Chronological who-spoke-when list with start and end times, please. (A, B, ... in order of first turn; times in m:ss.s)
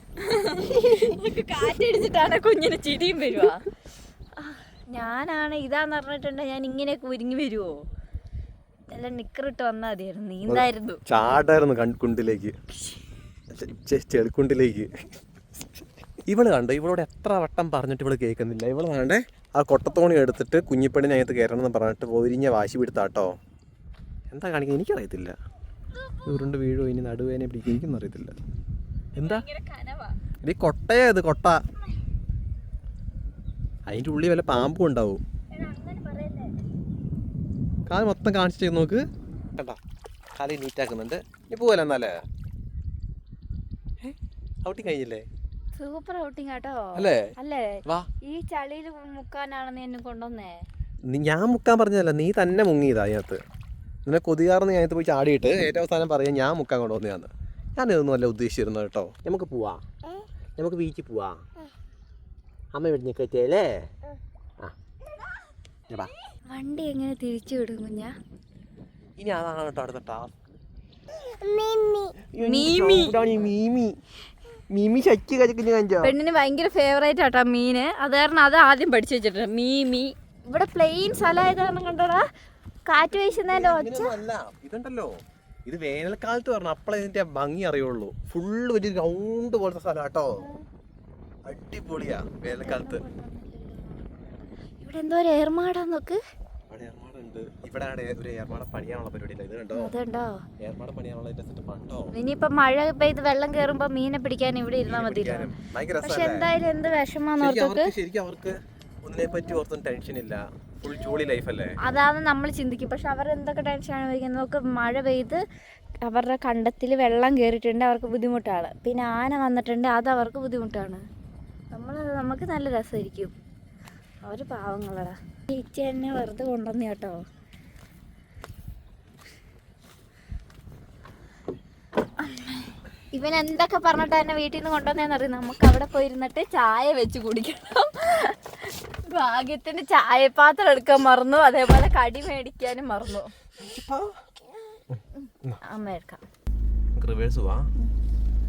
0:00.2-0:03.6 A
0:04.4-0:07.8 A
0:08.9-0:11.0 A
0:10.5-0:12.5 B
0:13.5-0:14.9 B
0:16.3-0:23.3 B
0:24.3-0:25.3 B
0:25.9-0:26.5 A
0:26.2-0:28.3 B
0:29.2-0:29.4 B
0:29.2-0:30.2 A
0:30.4-0:31.6 B
0:33.9-0:35.2 B
0:35.5-0:36.6 A
0:37.9-0:39.0 B
0:40.4-0:42.2 B
0:44.0-0:45.2 B
0:45.8-0:50.6 A
0:46.9-0:47.3 B
0:51.1-0:53.4 B
0:54.0-0:59.8 B
1:00.6-1:01.4 B
1:02.7-1:03.9 B
1:06.5-1:08.1 A
1:09.2-1:10.4 B
1:11.4-1:13.3 A
1:12.2-1:14.0 B
1:14.7-1:16.1 B
1:16.0-1:22.2 A
1:22.9-1:24.2 A
1:23.1-1:25.1 B
1:25.6-1:30.4 B
1:30.4-1:30.6 A
1:31.5-1:33.0 B
1:32.5-1:34.2 A
1:34.8-1:36.2 A
1:36.7-1:39.9 B
1:39.7-1:40.4 A
1:40.6-1:42.1 B
1:42.1-1:45.5 A
1:44.8-1:46.5 B
1:46.0-1:47.9 A
1:47.4-1:51.8 B
1:51.8-1:55.4 A
1:56.0-2:01.0 A
2:01.7-2:03.3 A
2:04.2-2:07.2 A
2:12.2-2:23.3 A
2:23.6-2:24.1 B
2:24.9-2:25.6 B
2:25.2-2:26.2 A
2:27.0-2:27.6 B